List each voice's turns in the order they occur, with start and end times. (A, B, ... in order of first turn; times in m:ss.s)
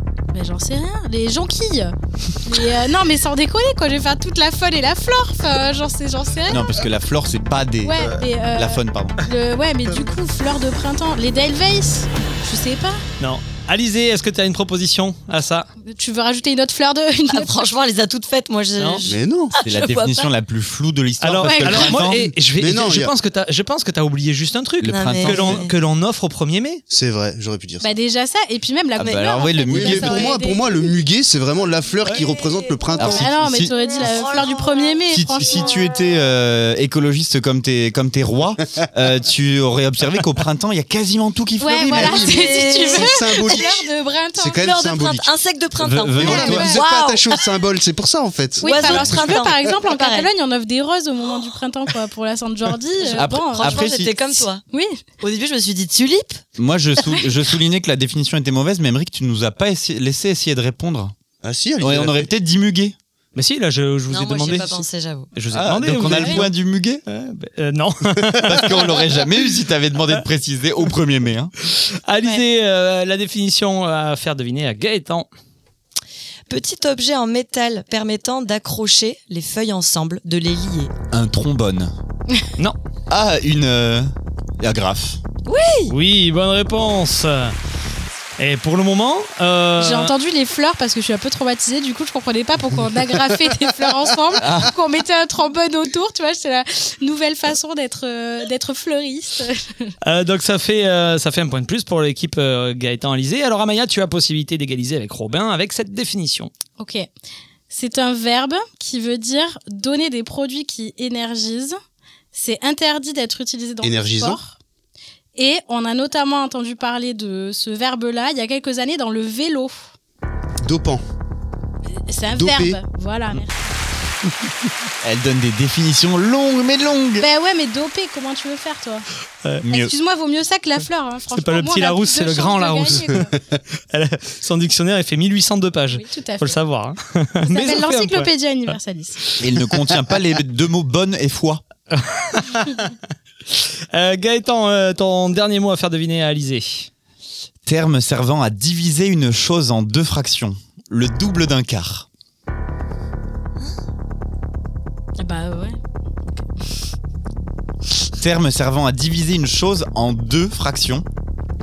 0:00.3-0:06.9 A
0:06.5-0:09.2 B
0:07.8-0:13.0 A
0:13.2-0:15.7 C
0:15.8-0:17.7 A
0:17.3-0:20.3 D
0:19.0-0:19.5 E
0:19.6-0:22.3 B
0:21.2-0:26.8 C
0:21.5-0:21.9 A
0:22.5-0:23.1 E
0:24.8-0:25.6 B
0:24.9-0:25.7 D
0:26.9-0:27.9 E
0:27.8-0:30.9 A
0:29.0-0:30.4 B
0:29.7-0:33.3 E
0:32.1-0:32.6 D
0:33.0-0:33.7 B
0:33.0-0:35.9 A
0:33.8-0:35.1 D
0:35.1-0:42.3 B
0:41.6-0:44.6 A
0:41.9-0:43.8 E
0:42.1-0:43.6 D
0:44.4-0:45.3 E
0:44.5-0:47.4 D
0:45.8-0:46.7 B
0:46.2-0:49.2 E
0:46.2-0:46.8 A
0:48.6-0:50.3 D
0:48.6-0:54.0 A
0:53.0-0:54.6 D
0:53.0-0:54.2 B
0:54.7-0:55.0 A
0:55.2-0:56.4 D
0:56.6-1:01.1 B
1:01.4-1:02.3 E
1:01.8-1:03.0 B
1:03.4-1:06.5 C
1:04.1-1:05.3 D
1:05.5-1:07.0 B
1:07.1-1:09.0 C
1:08.4-1:11.5 B
1:11.7-1:15.3 C
1:16.5-1:20.9 D
1:21.1-1:21.9 B
1:23.1-1:25.2 B
1:25.4-1:25.9 D
1:25.9-1:27.5 C
1:28.4-1:30.1 C
1:29.8-1:39.9 A
1:34.4-1:34.7 B
1:40.0-1:46.5 C
1:46.8-1:47.1 A
1:47.7-1:51.8 A
1:52.3-1:54.6 A
1:53.8-1:54.4 E
1:55.4-1:59.9 A
2:00.6-2:01.0 E
2:02.1-2:03.7 A
2:02.3-2:02.8 E
2:05.0-2:07.2 B
2:07.2-2:09.0 A
2:09.6-2:09.9 B
2:09.7-2:13.4 A
2:11.3-2:13.2 C
2:13.9-2:18.3 C
2:15.9-2:16.6 A
2:17.4-2:19.2 A
2:19.4-2:21.6 B
2:21.9-2:22.9 C
2:23.5-2:26.9 C
2:27.6-2:32.1 B
2:35.2-2:35.8 A
2:38.2-2:41.0 B